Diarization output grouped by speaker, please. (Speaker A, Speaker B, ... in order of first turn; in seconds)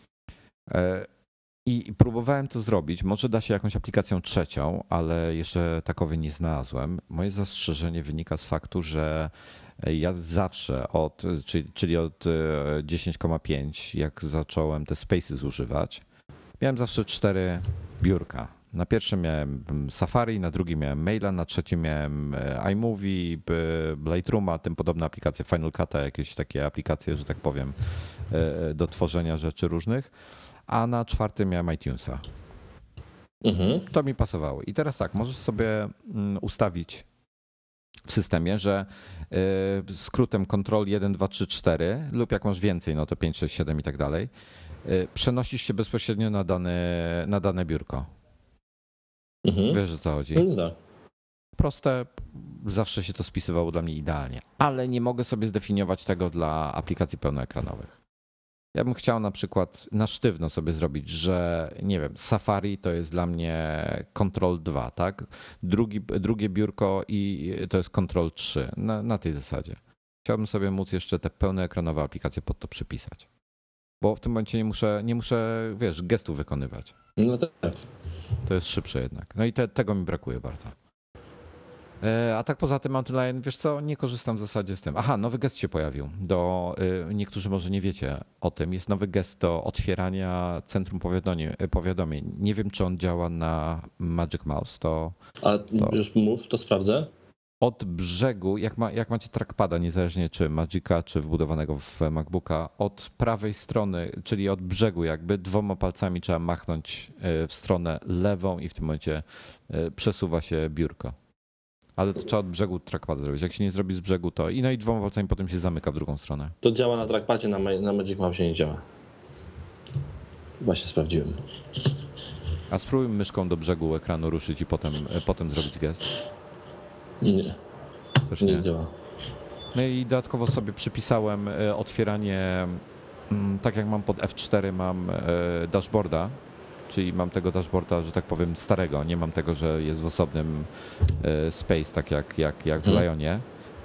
Speaker A: 0.7-1.1, 1.6-16.0, 16.6-30.1, 30.7-32.2, 33.9-37.1, 38.0-44.3, 44.9-48.1, 49.7-50.5, 51.6-58.0, 58.8-73.3, 74.0-76.9, 78.5-80.8, 82.0-95.2, 97.6-111.2, 112.0-116.5, 122.7-126.1, 128.3-128.7, 129.7-136.3, 136.9-143.4
Speaker B: 33.4-33.9, 49.5-49.8, 50.4-50.8, 77.2-77.8, 95.4-97.1, 116.6-118.8, 120.6-121.4, 127.2-127.6, 128.4-128.9